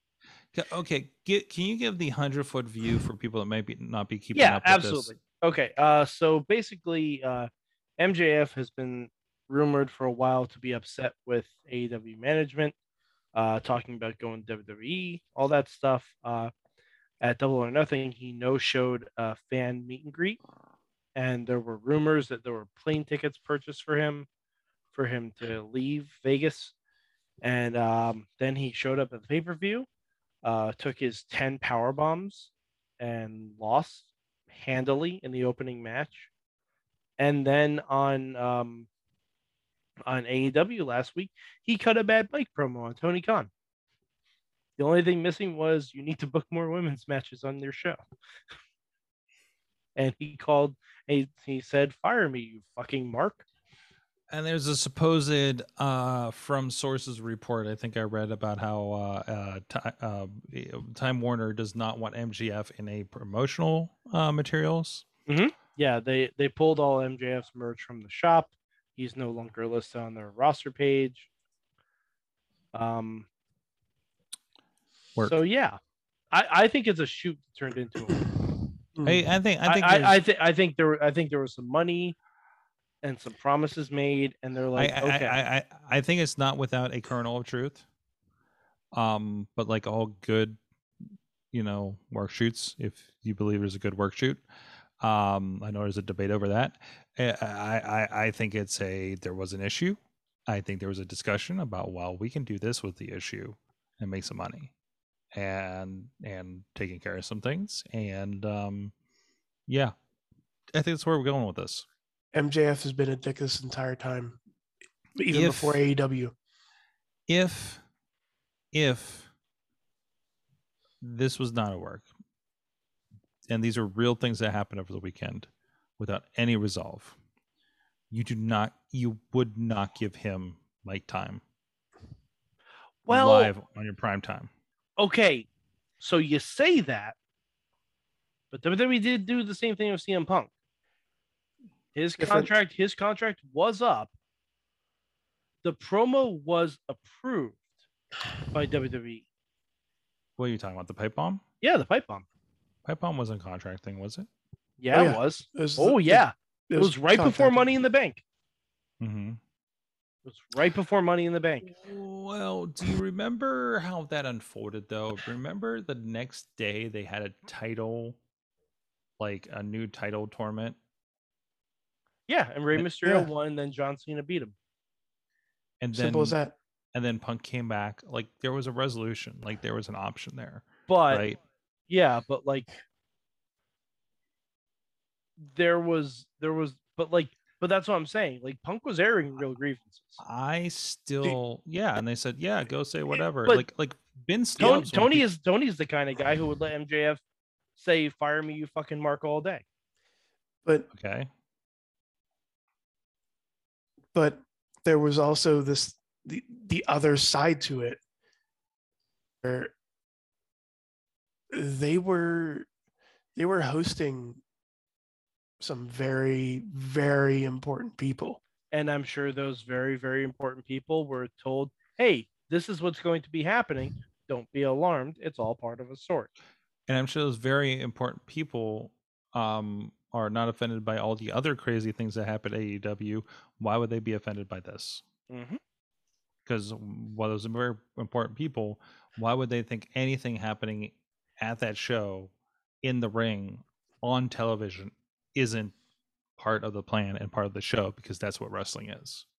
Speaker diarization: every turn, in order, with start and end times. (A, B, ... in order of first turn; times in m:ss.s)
0:00.5-0:05.1 A
0:04.4-0:12.8 B
0:13.3-0:16.5 B
0:17.2-0:20.4 B
0:21.2-0:24.3 B
0:24.9-0:26.8 B
0:27.4-0:29.9 B
0:30.4-0:36.3 B
0:37.2-0:38.9 B
0:40.1-0:43.5 B
0:44.8-0:48.0 B
0:50.0-0:53.4 B
0:54.3-1:05.0 A
1:05.3-1:11.3 B
1:12.7-1:13.3 B
1:15.2-1:15.8 B
1:16.3-1:18.3 B
1:19.0-1:19.2 C
1:19.0-1:20.2 A
1:19.6-1:22.2 B
1:23.0-1:25.4 B
1:24.8-1:27.8 A
1:28.9-1:30.6 A
1:31.5-1:34.4 A
1:35.0-1:44.7 A
1:45.3-1:48.9 A
1:49.7-1:50.0 A
1:50.7-1:51.9 A
1:52.3-1:54.4 C
1:55.2-1:56.3 C
1:55.3-1:55.8 A
1:57.3-1:57.8 A
1:58.7-1:59.3 A
2:01.0-2:02.1 A
2:03.5-2:05.5 A
2:06.0-2:07.2 A
2:08.1-2:11.4 A
2:13.1-2:13.5 B
2:13.1-2:14.5 A
2:15.0-2:15.5 B
2:16.0-2:17.2 B
2:18.5-2:20.5 B
2:22.0-2:24.1 B
2:22.2-2:22.5 C
2:25.6-2:27.6 B
2:28.5-2:29.3 B
2:30.4-2:31.4 A
2:31.6-2:32.2 B
2:32.8-2:34.3 A
2:34.8-2:38.2 B
2:34.9-2:37.7 C
2:39.0-2:39.4 A
2:40.3-2:41.7 B
2:41.6-2:48.2 A
2:49.2-2:50.8 A
2:52.3-2:54.6 B
2:53.0-2:53.3 C
2:55.8-2:56.4 A
2:55.9-2:56.6 C
2:56.9-3:01.4 A
3:00.9-3:01.2 B
3:01.9-3:02.7 B
3:05.4-3:10.2 B
3:10.2-3:15.2 A
3:14.6-3:17.2 B
3:17.8-3:19.6 B
3:21.0-3:21.3 A
3:24.1-3:28.0 C
3:29.4-3:29.7 C
3:31.5-3:32.7 C
3:33.4-3:34.4 C
3:35.6-3:38.4 C
3:38.7-3:46.3 B
3:46.9-3:55.0 A
3:55.3-3:55.6 B
3:56.4-4:02.3 A
4:02.8-4:05.7 A
4:06.4-4:09.2 A